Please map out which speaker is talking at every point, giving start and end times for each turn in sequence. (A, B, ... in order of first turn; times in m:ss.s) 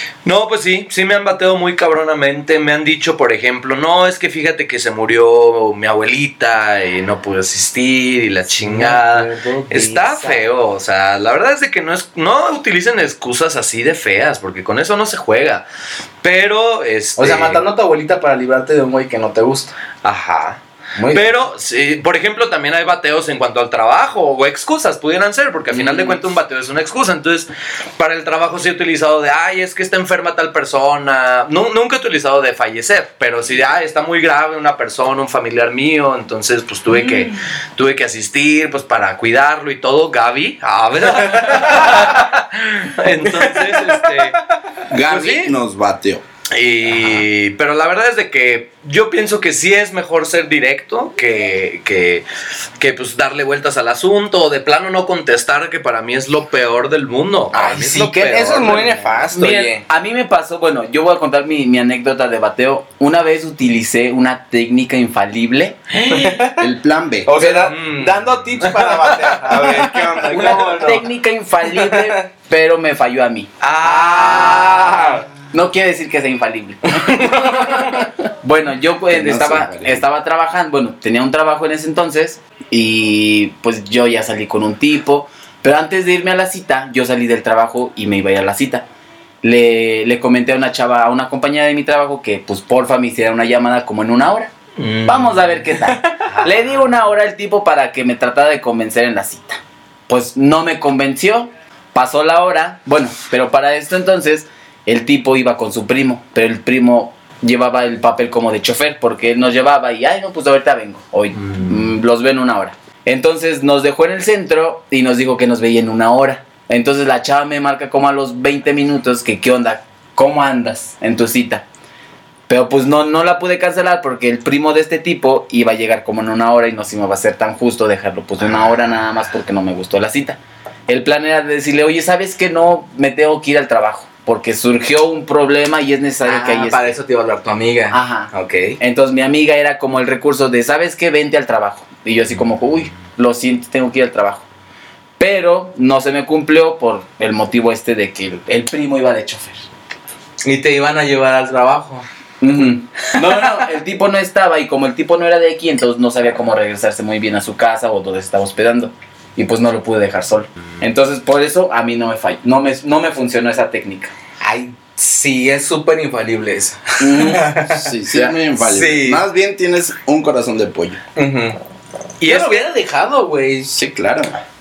0:00.2-0:15.6 A
0:08.6-0:10.5 B
0:16.2-0:17.6 A
0:17.2-0:19.7 B
0:20.0-0:20.6 A
0:21.0-0:21.4 B
0:21.1-0:44.4 A
0:25.7-0:26.2 B
0:36.9-0:37.3 B
0:41.4-0:42.0 B
0:43.2-0:44.4 B
0:44.9-0:46.2 C
0:45.1-0:45.5 A
0:46.5-0:52.2 A
0:52.8-0:59.6 A
0:57.5-0:59.8 B
0:59.3-1:06.2 D
1:05.9-1:06.4 A
1:06.1-1:06.7 B
1:06.6-1:07.3 C
1:07.2-1:11.0 B
1:07.4-1:11.0 A
1:09.7-1:10.7 C
1:10.5-1:28.8 D
1:11.7-1:12.2 B
1:13.6-1:15.2 B
1:17.0-1:17.7 B
1:19.1-1:20.0 C
1:29.4-1:34.5 D
1:34.8-1:35.6 A
1:35.0-2:01.6 D
1:51.4-1:51.7 A
2:02.5-2:16.9 D
2:16.2-2:18.8 B
2:17.9-2:24.4 D
2:25.2-2:29.6 D
2:30.4-2:32.0 B
2:32.4-2:44.1 D
2:32.6-2:33.6 B
2:44.4-2:47.9 B
2:47.0-2:47.5 D
2:47.6-2:51.0 C
2:48.6-2:49.2 B
2:51.2-2:51.6 B
2:52.2-2:52.7 A
2:52.2-2:53.8 B
2:53.8-2:54.4 C